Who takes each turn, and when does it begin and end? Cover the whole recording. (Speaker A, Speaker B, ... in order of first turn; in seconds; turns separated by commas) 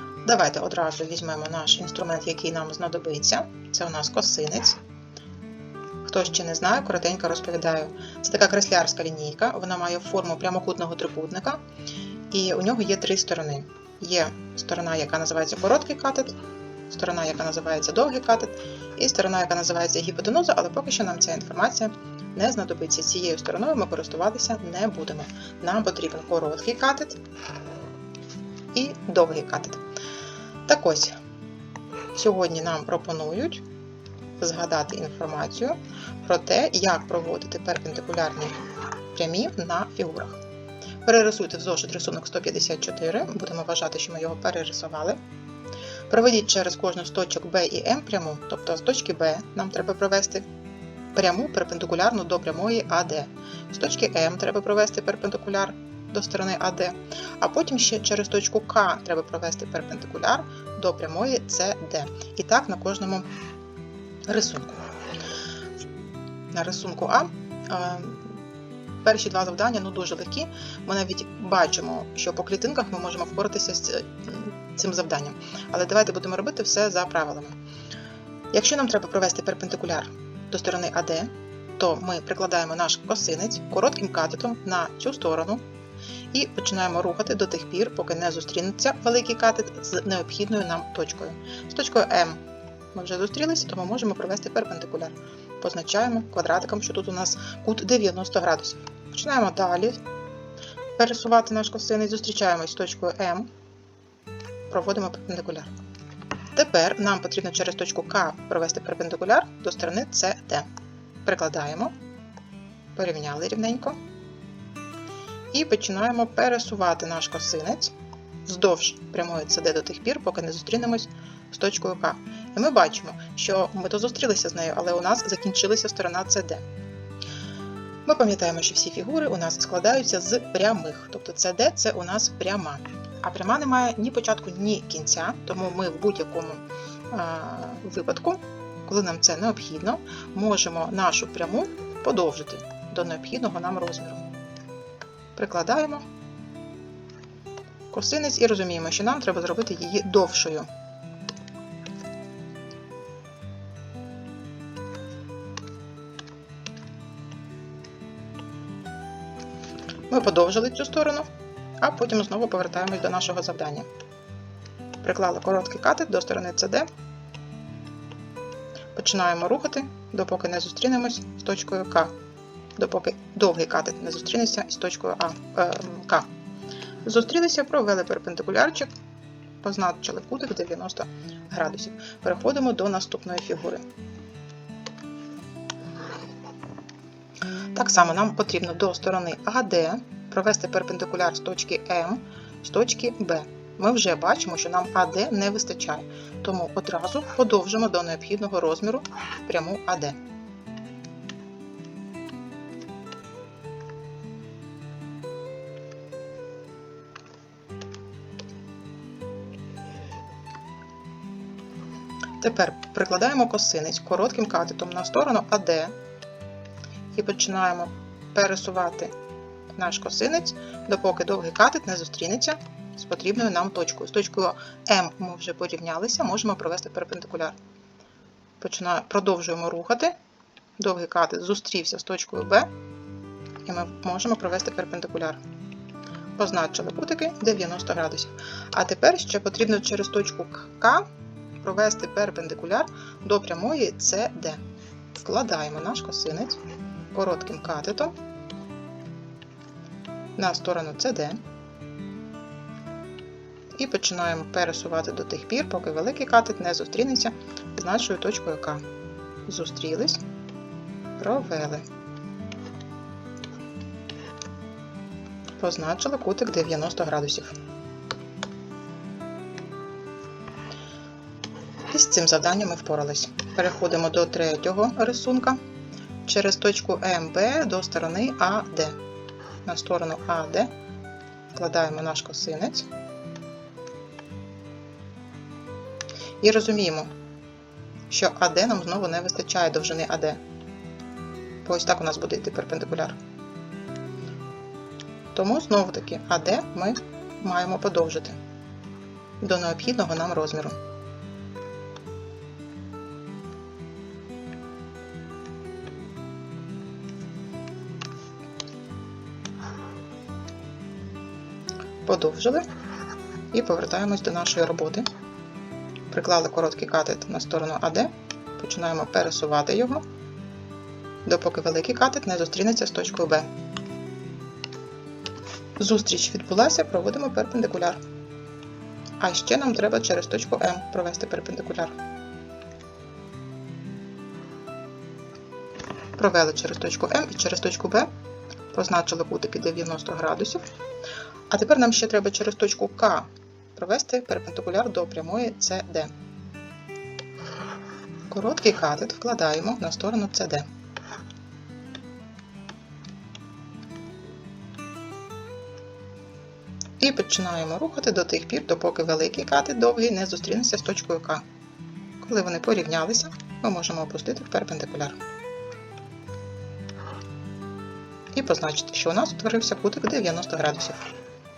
Speaker A: 0.2-4.8, Speaker A: 6.0-11.6, Speaker A: 12.3-16.4, Speaker A: 16.9-27.2, Speaker A: 28.7-29.8, Speaker A: 30.7-31.2, Speaker A: 32.1-33.6, Speaker A: 34.4-38.6, Speaker A: 39.1-40.4, Speaker A: 41.0-45.2, Speaker A: 46.1-50.5, Speaker A: 51.1-63.3, Speaker A: 64.3-64.8, Speaker A: 66.5-68.4, Speaker A: 69.0-77.6, Speaker A: 78.5-85.6, Speaker A: 86.3-92.4, Speaker A: 92.9-100.0, Speaker A: 101.0-103.5, Speaker A: 104.7-105.7, Speaker A: 106.5-110.7, Speaker A: 111.2-111.9, Speaker A: 113.0-114.0, Speaker A: 115.5-117.9, Speaker A: 118.5-126.7, Speaker A: 128.1-144.3, Speaker A: 145.3-146.1, Speaker A: 147.9-150.7, Speaker A: 160.1-161.3, Speaker A: 161.8-163.9, Speaker A: 165.0-166.9, Speaker A: 168.9-172.1, Speaker A: 172.8-176.3, Speaker A: 177.1-178.9, Speaker A: 179.6-183.8, Speaker A: 187.7-200.2, Speaker A: 212.4-215.9, Speaker A: 217.2-219.1, Speaker A: 219.7-227.6, Speaker A: 228.6-230.2, Speaker A: 230.8-232.7, Speaker A: 233.7-235.4, Speaker A: 236.4-241.1, Speaker A: 241.6-244.6, Speaker A: 245.2-246.6, Speaker A: 247.1-248.1, Speaker A: 250.4-251.4, Speaker A: 253.7-258.9, Speaker A: 259.5-260.2, Speaker A: 261.2-261.9, Speaker A: 265.6-267.6, Speaker A: 271.9-275.6, Speaker A: 276.2-279.0, Speaker A: 279.6-280.7, Speaker A: 281.5-282.9, Speaker A: 286.4-287.1, Speaker A: 288.1-290.4, Speaker A: 291.6-293.2, Speaker A: 295.3-298.4, Speaker A: 299.4-300.8, Speaker A: 312.1-312.7, Speaker A: 313.5-315.1, Speaker A: 316.1-320.0, Speaker A: 321.2-323.5, Speaker A: 325.8-328.0, Speaker A: 329.2-331.9, Speaker A: 336.2-338.1, Speaker A: 338.7-340.6, Speaker A: 341.5-346.1, Speaker A: 348.3-350.7, Speaker A: 357.0-361.4, Speaker A: 362.2-365.2, Speaker A: 368.3-371.1